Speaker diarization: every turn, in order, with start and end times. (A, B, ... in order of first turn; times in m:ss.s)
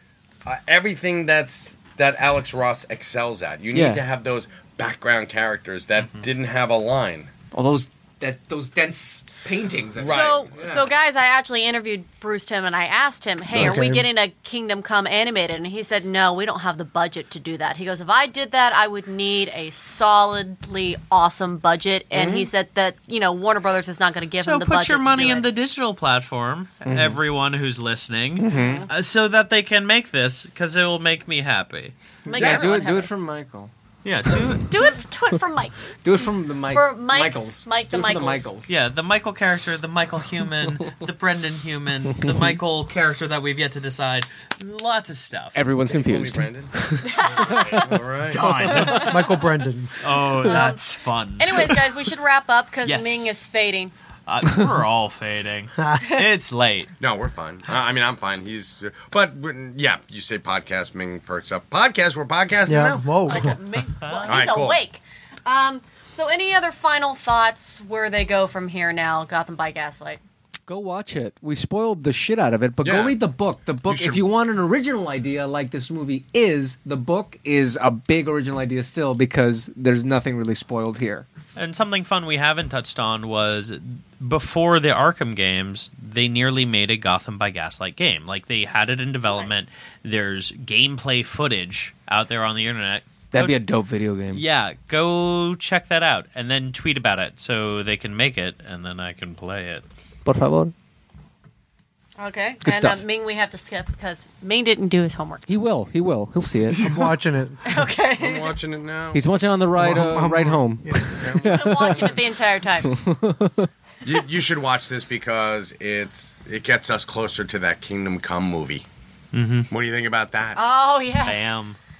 0:00.4-0:07.3 A
0:03.7-0:04.0 B
0:07.5-0:10.9 B
0:10.0-0:10.8 A
0:10.0-0:25.5 C
0:13.5-0:14.0 B
0:22.1-0:22.4 A
0:24.4-0:31.9 D
0:26.8-0:27.2 B
0:28.4-0:28.9 B
0:28.5-0:28.9 C
0:32.2-0:33.1 C
0:32.3-0:33.7 B
0:32.3-0:32.8 A
0:34.0-0:34.8 D
0:34.3-0:34.6 B
0:34.6-0:38.5 C
0:36.0-0:38.7 B
0:38.7-0:45.6 D
0:42.1-0:42.6 B
0:45.5-0:49.0 B
0:45.9-0:48.7 A
0:47.0-0:48.0 C
0:48.3-0:49.2 D
0:48.6-0:50.0 E
0:48.7-0:49.3 C
0:50.0-0:51.8 D
0:50.4-0:50.8 C
0:51.4-0:53.9 C
0:52.8-0:53.3 D
0:54.3-0:56.9 D
0:55.8-0:56.1 E
0:57.0-1:03.4 A
1:02.7-1:03.6 E
1:03.3-1:10.2 C
1:04.0-1:04.5 D
1:04.3-1:04.8 A
1:10.7-1:21.2 B
1:12.8-1:13.2 A
1:13.8-1:14.2 A
1:21.6-1:33.6 D
1:33.3-1:34.4 B
1:34.3-1:39.8 D
1:40.2-1:40.7 B
1:42.2-1:45.4 C
1:42.6-1:43.0 B
1:45.5-1:46.8 B
1:46.7-1:47.1 A
1:46.8-1:47.7 E
1:47.6-1:48.6 C
1:48.2-1:49.2 A
1:49.1-1:52.3 B
1:49.8-1:51.2 E
1:51.0-1:52.1 A
1:51.4-1:52.9 C
1:52.8-1:53.7 B
1:54.0-1:58.8 A
1:59.3-1:59.7 D
1:59.7-2:00.6 A
2:00.6-2:01.5 C
2:01.2-2:01.8 D